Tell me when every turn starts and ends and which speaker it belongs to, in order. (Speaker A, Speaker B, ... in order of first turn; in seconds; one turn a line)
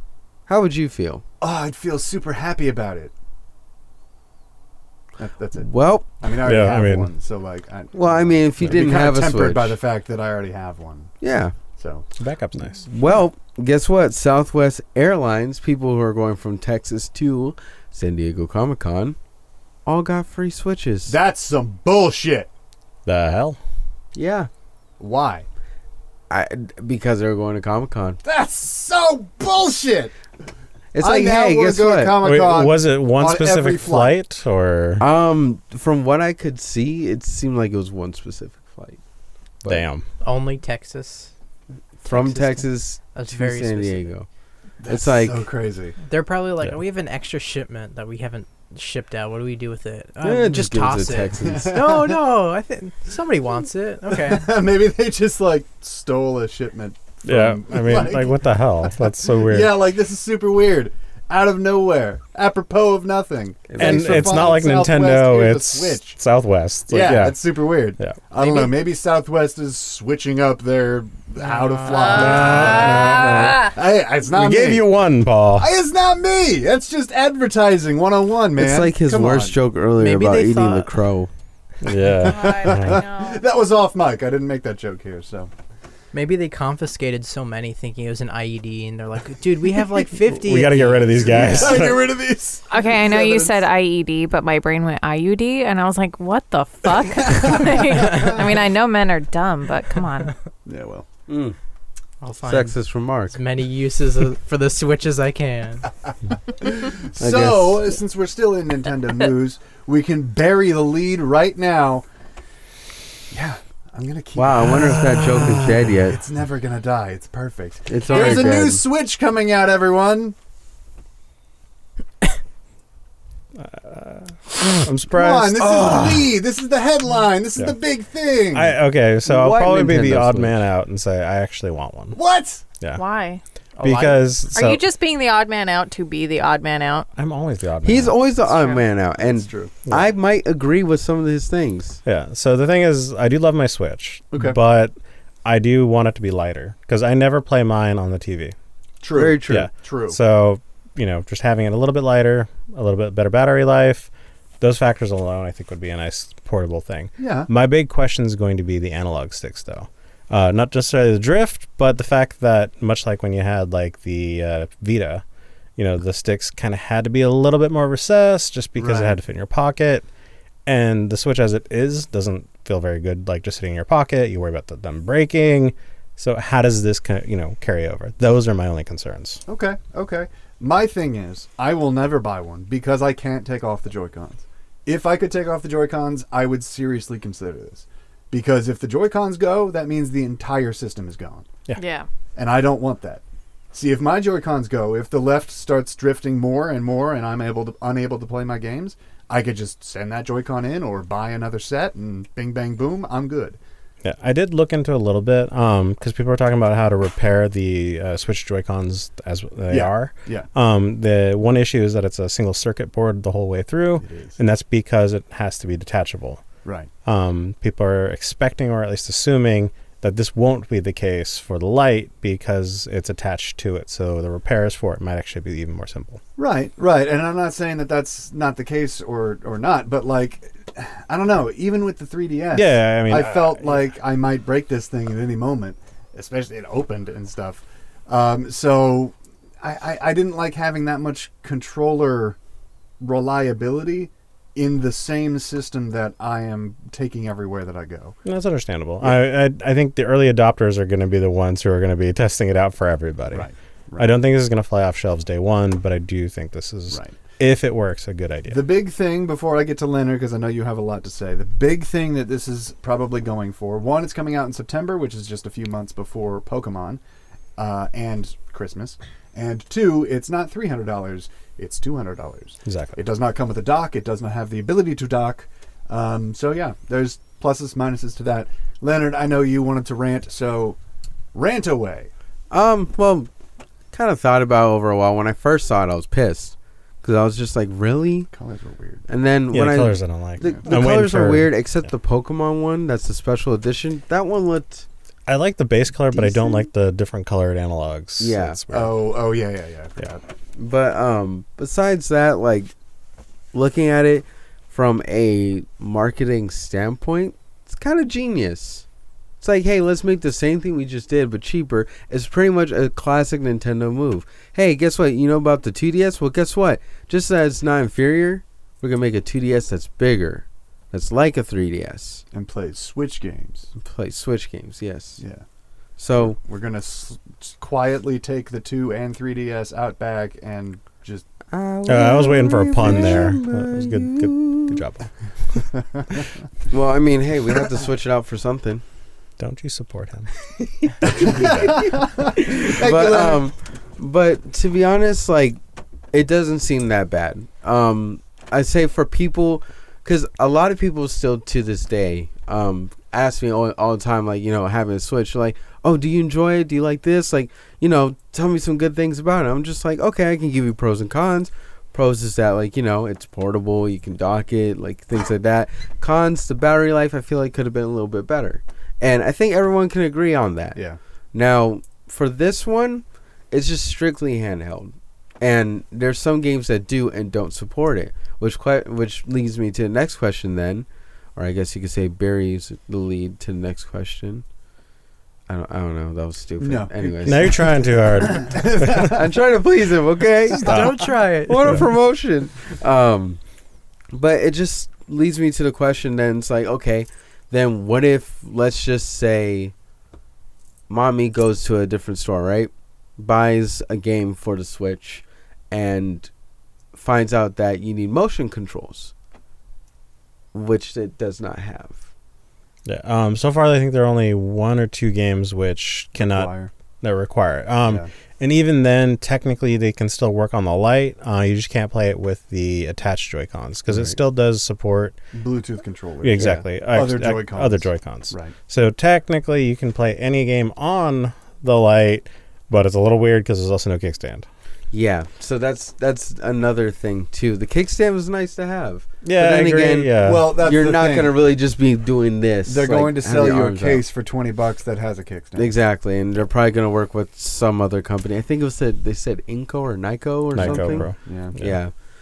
Speaker A: 0.5-1.2
Speaker B: 1.4-3.1
Speaker B: 5.2-11.1
Speaker A: 5.6-6.1
Speaker C: 6.4-7.1
Speaker A: 7.9-9.8
Speaker A: 11.2-11.6
Speaker B: 11.8-12.1
Speaker C: 12.2-12.8
Speaker A: 12.8-19.2
Speaker A: 19.9-21.2
Speaker B: 21.1-22.5
Speaker C: 23.1-23.6
Speaker A: 24.1-24.5
Speaker B: 25.0-25.5
Speaker A: 26.3-28.2
Speaker B: 28.2-30.1
Speaker A: 30.9-32.3
Speaker B: 31.0-34.1
Speaker C: 32.2-35.1
Speaker A: 35.0-39.0
Speaker C: 39.7-40.0
Speaker D: 40.2-41.3
Speaker D: 42.0-44.1
Speaker A: 42.0-44.3
Speaker B: 44.8-46.0
Speaker A: 44.9-45.5
Speaker D: 46.0-54.5
Speaker A: 50.2-51.8
Speaker B: 51.4-52.2
Speaker B: 54.1-66.2
Speaker C: 57.2-59.8
Speaker A: 63.7-64.5
Speaker C: 63.8-67.4
Speaker B: 66.9-74.9
Speaker E: 68.4-68.7
Speaker D: 71.4-72.1
Speaker E: 71.9-73.7
Speaker C: 72.0-73.7
Speaker C: 74.3-75.7
Speaker B: 75.6-79.6
Speaker A: 78.6-81.3
Speaker D: 80.0-81.0
Speaker C: 81.8-83.0
Speaker B: 82.0-85.5
Speaker E: 82.2-83.4
Speaker D: 86.1-91.7
Speaker C: 90.3-92.1
Speaker B: 91.3-93.6
Speaker E: 92.7-100.3
Speaker B: 97.3-98.4
Speaker B: 100.7-101.1
Speaker A: 101.3-101.6
Speaker D: 102.2-105.9
Speaker A: 102.4-103.4
Speaker B: 106.6-112.0
Speaker A: 107.2-107.8
Speaker B: 113.3-120.3
Speaker A: 114.4-116.2
Speaker A: 117.9-118.8
Speaker C: 123.6-125.9
Speaker B: 125.1-128.8
Speaker A: 125.7-126.2
Speaker C: 128.5-132.2
Speaker A: 129.3-130.6
Speaker B: 132.1-132.6
Speaker E: 132.9-133.4
Speaker D: 133.8-134.2
Speaker C: 133.8-134.8
Speaker E: 134.5-137.1
Speaker C: 137.2-138.2
Speaker A: 137.8-142.0
Speaker E: 138.5-138.8
Speaker B: 138.7-139.8
Speaker C: 142.1-148.6
Speaker B: 144.3-144.6
Speaker B: 149.0-150.2
Speaker A: 149.1-149.7
Speaker C: 149.5-165.2
Speaker B: 157.2-157.5
Speaker C: 165.8-170.1
Speaker B: 168.8-169.2
Speaker C: 170.7-179.4
Speaker B: 179.5-191.5
Speaker E: 191.8-192.1
Speaker B: 192.4-203.6
Speaker C: 204.0-216.4
Speaker B: 209.7-210.5
Speaker B: 214.0-214.4
Speaker B: 216.7-216.9
Speaker C: 217.1-226.2
Speaker B: 226.4-242.4
Speaker C: 232.5-233.7
Speaker B: 243.0-248.2
Speaker C: 248.2-258.7
Speaker B: 253.3-254.1
Speaker B: 256.9-257.2
Speaker B: 258.5-267.0
Speaker B: 267.6-280.8
Speaker C: 272.7-273.0
Speaker B: 281.3-282.1
Speaker A: 282.5-283.3
Speaker A: 283.9-288.3
Speaker B: 288.3-289.1
Speaker A: 289.1-294.9
Speaker C: 289.5-291.5
Speaker C: 295.3-299.0
Speaker A: 296.1-296.6
Speaker A: 298.2-298.6
Speaker B: 298.7-300.2
Speaker A: 300.6-302.7
Speaker A: 303.5-308.9
Speaker A: 309.4-322.2
Speaker B: 322.3-323.7
Speaker A: 323.8-325.2
Speaker B: 325.2-325.4
Speaker A: 326.0-326.4
Speaker B: 326.2-331.3
Speaker A: 331.5-334.8
Speaker C: 331.9-335.6
Speaker B: 332.8-333.3
Speaker A: 336.7-338.8
Speaker C: 339.4-340.3
Speaker B: 341.0-343.4
Speaker C: 341.2-341.8
Speaker A: 341.2-345.6
Speaker A: 346.1-370.8
Speaker A: 371.3-384.4
Speaker A: 385.5-387.7
Speaker B: 386.6-389.4
Speaker C: 387.2-389.1
Speaker A: 389.0-393.4
Speaker D: 390.6-391.8
Speaker A: 394.1-399.7
Speaker A: 400.9-406.3
Speaker A: 406.9-409.1
Speaker A: 410.5-412.0
Speaker C: 412.9-416.5
Speaker B: 416.2-416.7
Speaker C: 417.0-425.2
Speaker B: 425.3-428.6
Speaker C: 426.2-434.5
Speaker A: 434.9-444.1
Speaker C: 439.2-440.5
Speaker B: 440.2-441.4
Speaker B: 442.6-445.8
Speaker A: 445.6-451.9
Speaker C: 450.5-451.8
Speaker B: 450.6-451.6